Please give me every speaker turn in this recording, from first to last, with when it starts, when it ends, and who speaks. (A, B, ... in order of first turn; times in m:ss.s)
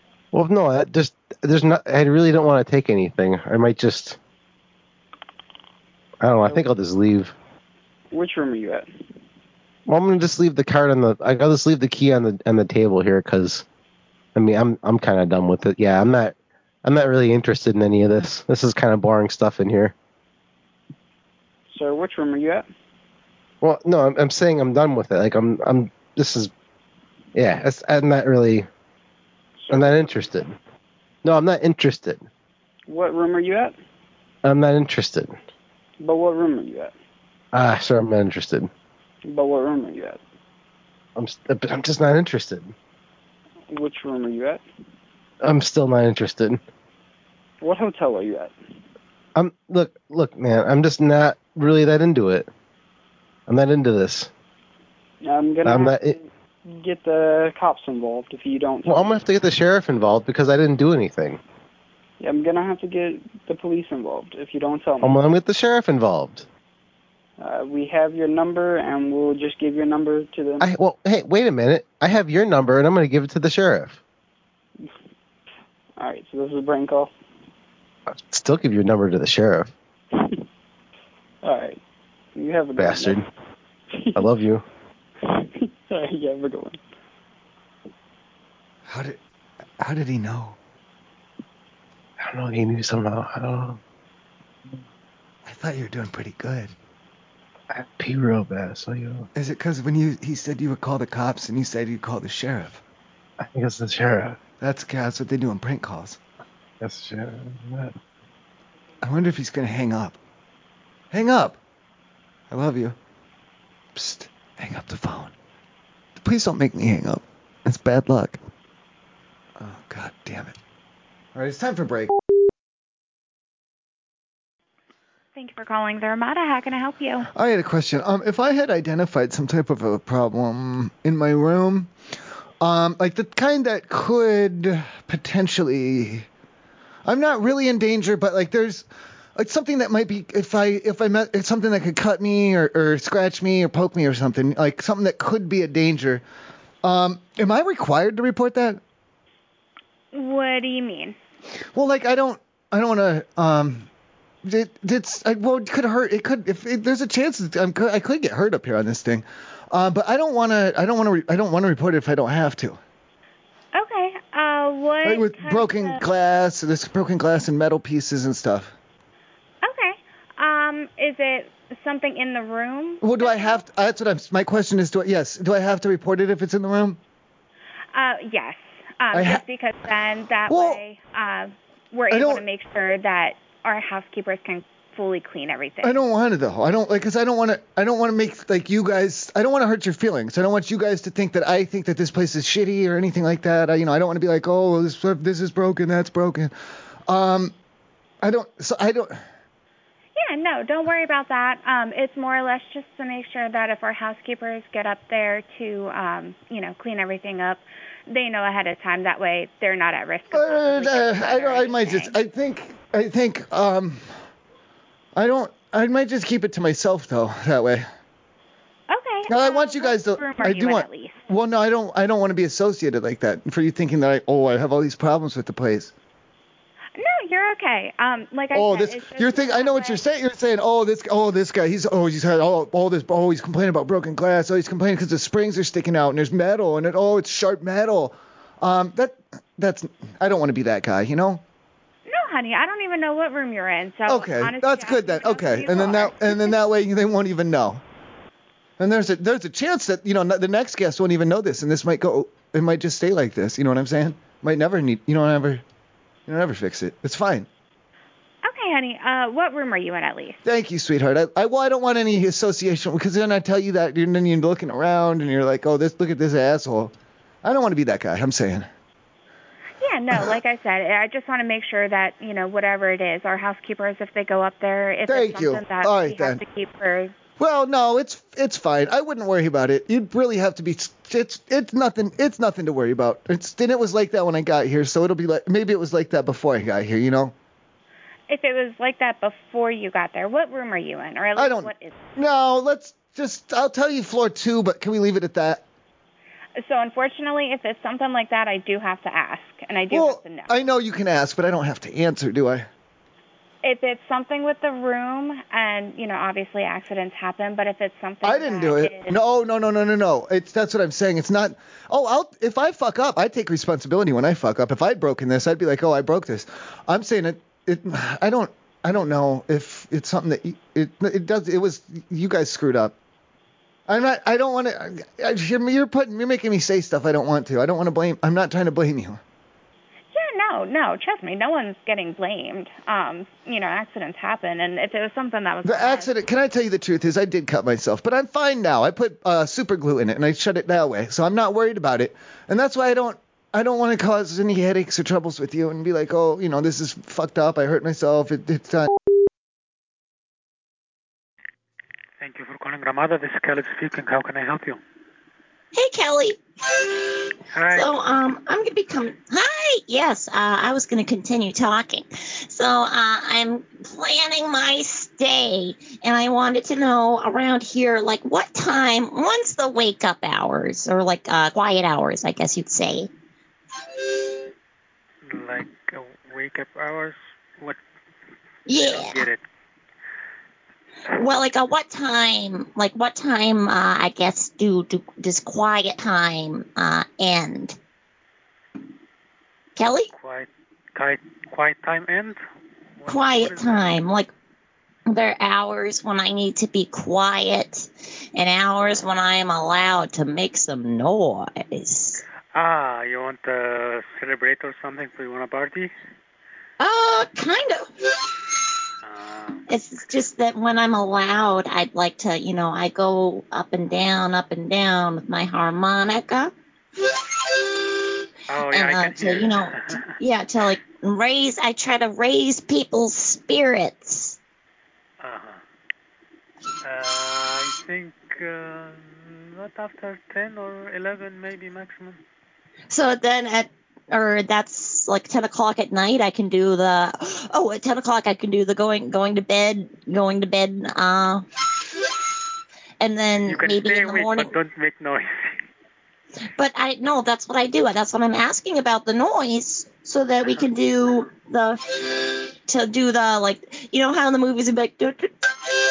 0:00.3-0:04.2 A
0:06.2-0:07.3 A
0:08.1-0:08.9 B
0:09.9-0:13.6 A
0:14.4-0:19.9 A
0:21.7-0:22.7 B
0:23.6-0:26.5 A
0:27.4-0:28.7 A
0:29.6-0:30.1 B
0:29.7-0:30.6 A
0:31.2-0:32.2 A
0:32.9-0:33.8 B
0:34.4-0:35.4 A
0:36.0-0:37.0 B
0:37.5-0:38.7 A
0:39.2-0:40.2 B
0:41.2-0:42.7 A
0:43.7-0:44.6 B
0:45.4-0:46.6 A
0:47.6-0:48.5 B
0:49.4-0:52.5 A
0:53.5-0:54.3 A
0:55.2-0:59.2 B
0:55.6-0:56.2 A
0:58.8-1:01.4 A
1:02.2-1:05.2 B
1:05.0-1:06.4 A
1:07.4-1:10.6 B
1:10.6-1:14.0 A
1:16.0-1:17.1 B
1:18.1-1:19.7 A
1:21.4-1:21.8 B
1:22.4-1:23.2 B
1:22.8-1:23.2 A
1:24.0-1:24.3 B
1:24.2-1:24.6 A
1:25.9-1:26.8 B
1:28.9-1:29.2 C
1:29.8-1:30.6 C
1:32.2-1:33.8 A
1:35.4-1:36.7 C
1:37.7-1:39.3 A
1:39.4-1:42.8 C
1:43.4-1:44.4 A
1:44.6-1:46.2 C
1:46.8-1:47.9 A
1:49.0-1:50.2 C
1:51.1-1:51.6 C
1:52.5-1:53.0 C
1:54.0-1:55.3 C
1:56.2-1:58.4 C
1:59.6-2:00.6 C
2:01.3-2:02.1 C
2:05.4-2:07.3 D
2:07.3-2:11.9 C
2:12.6-2:16.3 C
2:17.0-2:26.2 C
2:26.8-2:28.8 C
2:30.1-2:31.2 D
2:31.7-2:33.9 C
2:34.4-2:42.8 C
2:43.7-2:46.0 D
2:45.0-2:48.7 C
2:49.6-2:53.6 D
2:53.0-2:57.0 C
2:57.9-3:06.0 D
2:59.1-2:59.4 C
3:00.5-3:00.8 C
3:02.1-3:02.4 C
3:05.8-3:16.5 C
3:17.1-3:17.5 C
3:18.2-3:19.2 C
3:20.2-3:32.2 D
3:30.3-3:34.1 C
3:35.1-3:37.9 C
3:38.9-3:41.2 D
3:39.3-3:45.9 C
3:47.0-3:50.0 D
3:48.5-4:01.4 C
4:02.1-4:06.6 D
4:04.1-4:07.8 C
4:08.8-4:15.6 C
4:16.3-4:17.5 C
4:18.4-4:20.4 D
4:20.4-4:28.7 C
4:29.8-4:37.1 D
4:35.1-4:36.4 C
4:37.4-4:47.3 C
4:48.3-4:52.0 D
4:51.4-4:55.6 C
4:56.6-5:00.5 D
4:59.9-5:02.7 C
5:03.6-5:09.2 D
5:08.2-5:22.9 C
5:23.9-5:29.2 C
5:30.1-5:36.1 D
5:35.6-5:48.9 C
5:52.2-5:54.8 E
5:55.8-5:56.4 F
5:57.5-5:57.9 E
5:57.7-6:13.1 F
6:15.3-6:17.8 E
6:18.7-6:19.3 F
6:18.8-6:19.4 E
6:21.2-6:27.8 F
6:29.8-6:30.1 F
6:30.2-6:32.4 E
6:33.0-6:33.9 E
6:33.1-6:34.3 F
6:35.1-6:42.2 F
6:42.5-6:45.9 E
6:46.8-6:47.8 F
6:49.0-6:49.6 E
6:49.7-6:56.5 F
6:58.5-7:00.2 E
6:58.6-7:04.4 F
7:05.2-7:05.6 E
7:06.8-7:12.2 E
7:12.9-7:21.4 F
7:23.0-7:24.5 F
7:23.4-7:25.5 E
7:26.6-7:31.8 F
7:32.7-7:35.3 F